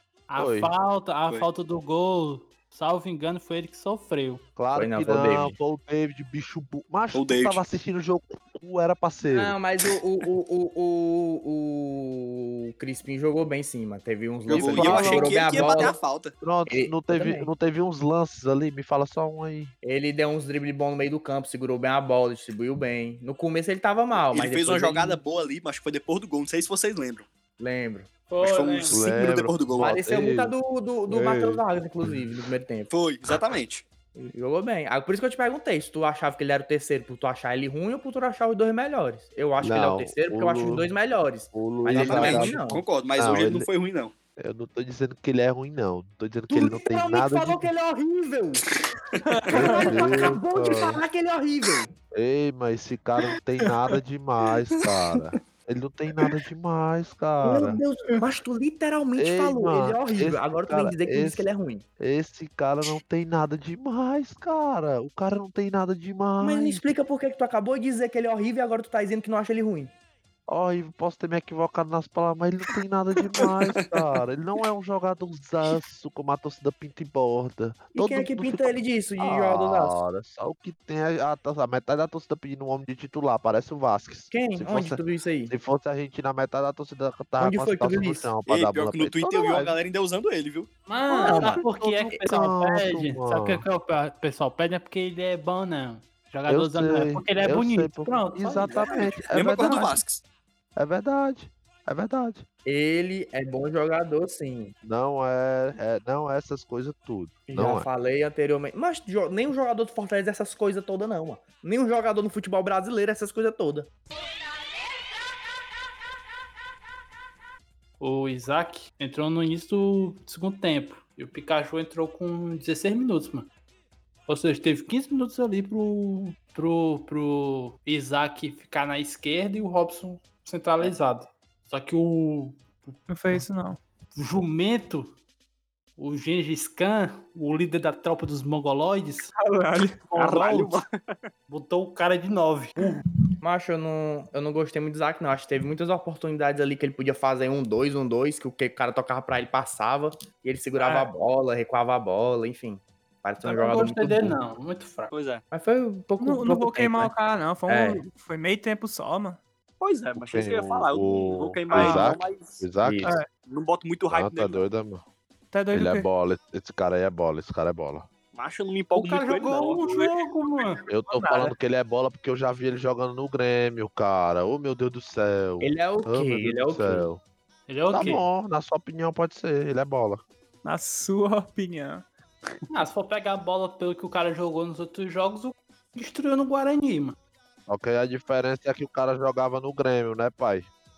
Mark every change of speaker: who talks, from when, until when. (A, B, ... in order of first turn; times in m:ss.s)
0:00.3-0:04.4 A
0:00.4-0:00.7 B
0:04.6-0:09.6 B
0:04.7-0:05.6 C
0:07.1-0:07.6 D
0:09.3-0:16.0 C
0:14.5-0:16.3 D
0:14.5-0:15.9 B
0:16.4-0:19.7 B
0:16.7-0:17.5 C
0:19.8-0:25.2 C
0:24.3-0:27.3 D
0:27.6-0:28.1 C
0:28.3-0:29.0 A
0:28.4-0:30.0 D
0:28.9-0:30.5 B
0:29.8-0:32.9 C
0:31.1-0:32.2 B
0:32.9-0:33.8 D
0:34.2-0:42.8 C
0:39.6-0:40.8 B
0:41.5-0:43.7 B
0:42.0-0:44.1 D
0:44.4-0:47.7 B
0:46.5-0:48.7 C
0:49.2-0:49.9 E
0:49.5-0:51.9 C
0:49.5-0:51.0 B
0:52.1-0:57.8 B
0:57.4-1:01.8 C
0:59.2-1:01.4 B
1:02.0-1:06.9 B
1:06.4-1:09.9 C
1:10.5-1:29.8 B
1:13.4-1:14.0 D
1:17.9-1:20.0 C
1:24.3-1:25.5 C
1:27.4-1:28.3 C
1:28.5-1:30.7 D
1:30.8-1:39.9 A
1:31.1-1:32.2 C
1:31.2-1:33.6 B
1:36.5-1:39.9 B
1:38.7-1:40.2 D
1:40.8-1:42.4 B
1:42.6-1:44.7 C
1:44.8-1:47.9 B
1:47.5-1:53.9 C
1:58.0-2:03.5 A
2:04.3-2:13.4 A
2:13.1-2:13.8 E
2:14.1-2:15.1 A
2:16.0-2:19.3 A
2:19.3-2:20.0 E
2:20.1-2:20.8 A
2:20.1-2:21.3 D
2:21.5-2:23.0 A
2:22.8-2:23.3 E
2:23.4-2:34.4 C
2:30.8-2:31.1 E
2:33.4-2:35.1 A
2:35.1-2:35.4 D
2:35.5-2:37.1 C
2:36.2-2:39.4 E
2:37.7-2:38.0 C
2:39.8-2:42.6 D
2:40.2-2:43.1 B
2:42.8-2:43.1 C
2:43.5-2:44.6 D
2:44.1-2:45.0 B
2:45.5-2:46.1 E
2:45.7-2:48.0 B
2:48.3-2:49.8 D
2:48.9-2:50.8 A
2:49.9-2:50.1 E
2:50.9-2:57.2 B
2:51.1-2:51.5 E
2:55.6-2:57.1 C
2:57.7-2:58.2 A
2:57.9-3:00.2 B
3:00.6-3:02.0 E
3:02.7-3:07.2 A
3:07.7-3:10.7 B